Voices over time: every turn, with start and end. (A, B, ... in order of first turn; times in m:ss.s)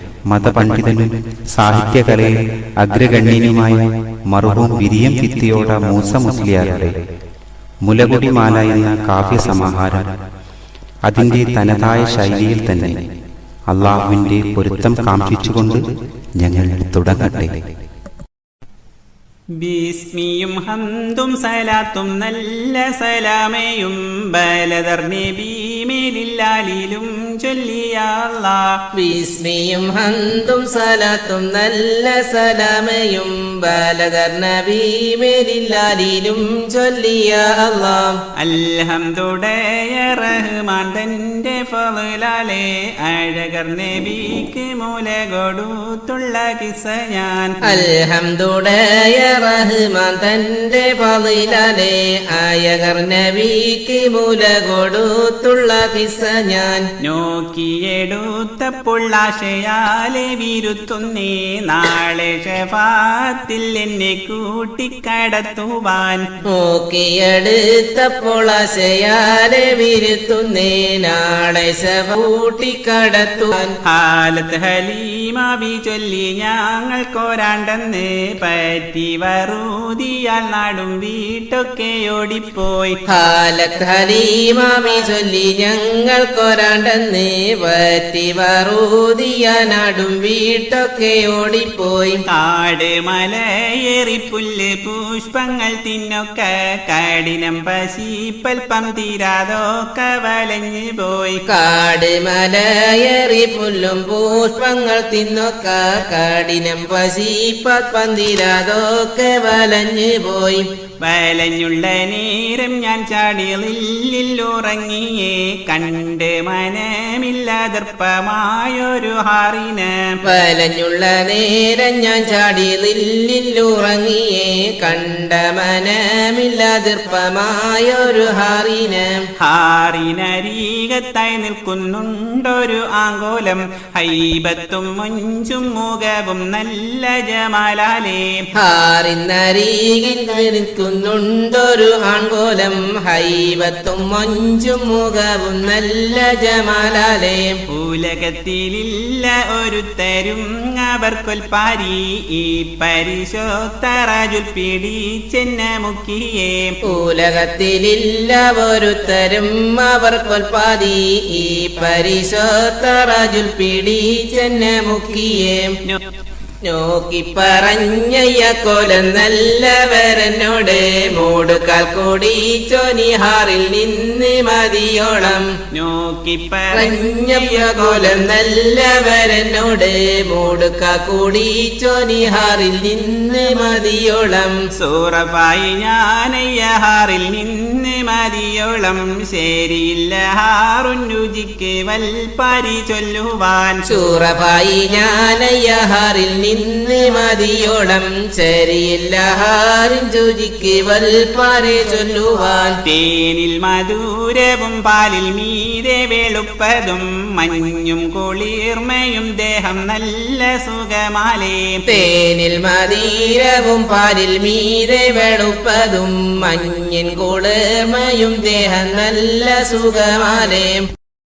0:00.3-0:07.0 A
0:07.8-0:10.1 A
0:11.0-0:13.0 A
0:13.7-0:15.9 A
0:16.4-0:17.6 A
0:19.6-0:28.8 B
0:29.0-0:38.2 C
0:38.4-0:47.8 B
0:47.6-0:56.8 C
0:57.0-1:06.2 B
1:06.5-1:13.7 C
1:13.8-1:23.0 B
1:23.1-1:32.2 C
1:32.3-1:41.4 B
1:41.5-1:50.6 C
1:51.0-2:00.2 B
2:00.2-2:09.2 C
2:09.4-2:18.4 B
2:18.6-2:27.6 C
2:27.7-2:36.8 B
2:36.9-2:45.7 C
2:46.6-2:55.5 C
2:55.7-2:58.0 B
2:56.7-3:04.6 C
3:04.8-3:13.8 B
3:13.9-3:22.8 C
3:22.8-3:31.8 B
3:31.9-3:40.9 C